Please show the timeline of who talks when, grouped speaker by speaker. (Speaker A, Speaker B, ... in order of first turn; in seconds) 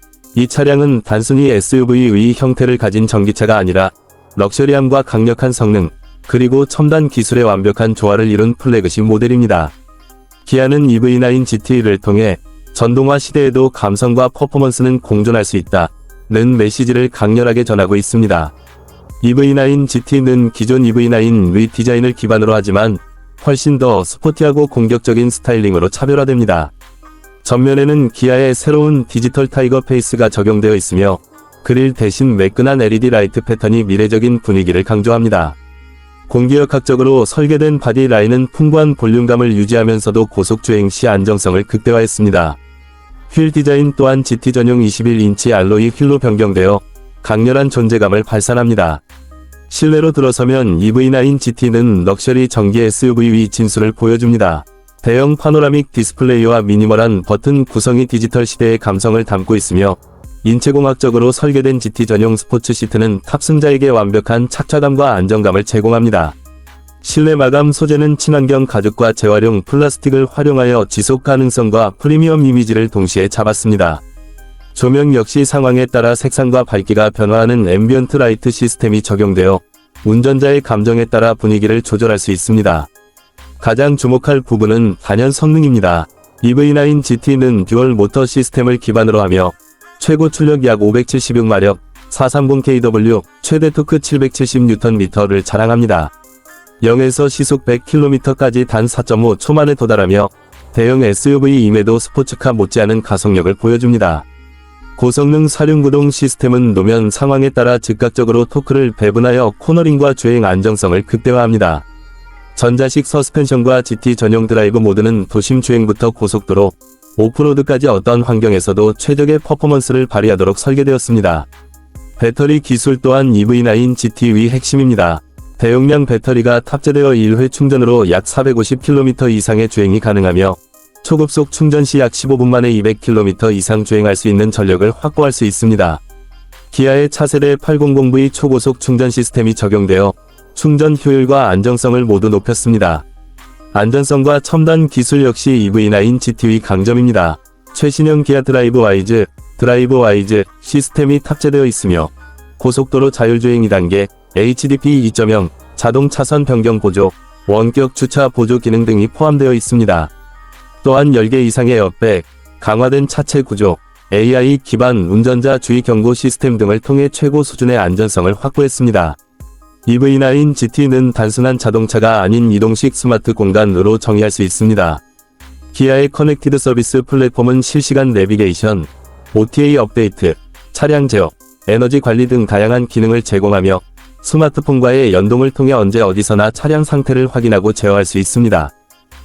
Speaker A: 0.3-9.7, 10.4-18.5, 19.2-26.7, 27.4-35.5, 36.3-42.6, 43.3-49.0, 49.7-66.3, 67.0-74.0, 74.7-82.9, 83.6-96.1, 96.8-104.2, 105.0-111.8, 112.5-121.5, 122.2-136.0, 136.7-143.0, 143.7-160.1, 160.8-169.2, 169.8-175.0, 175.7-188.7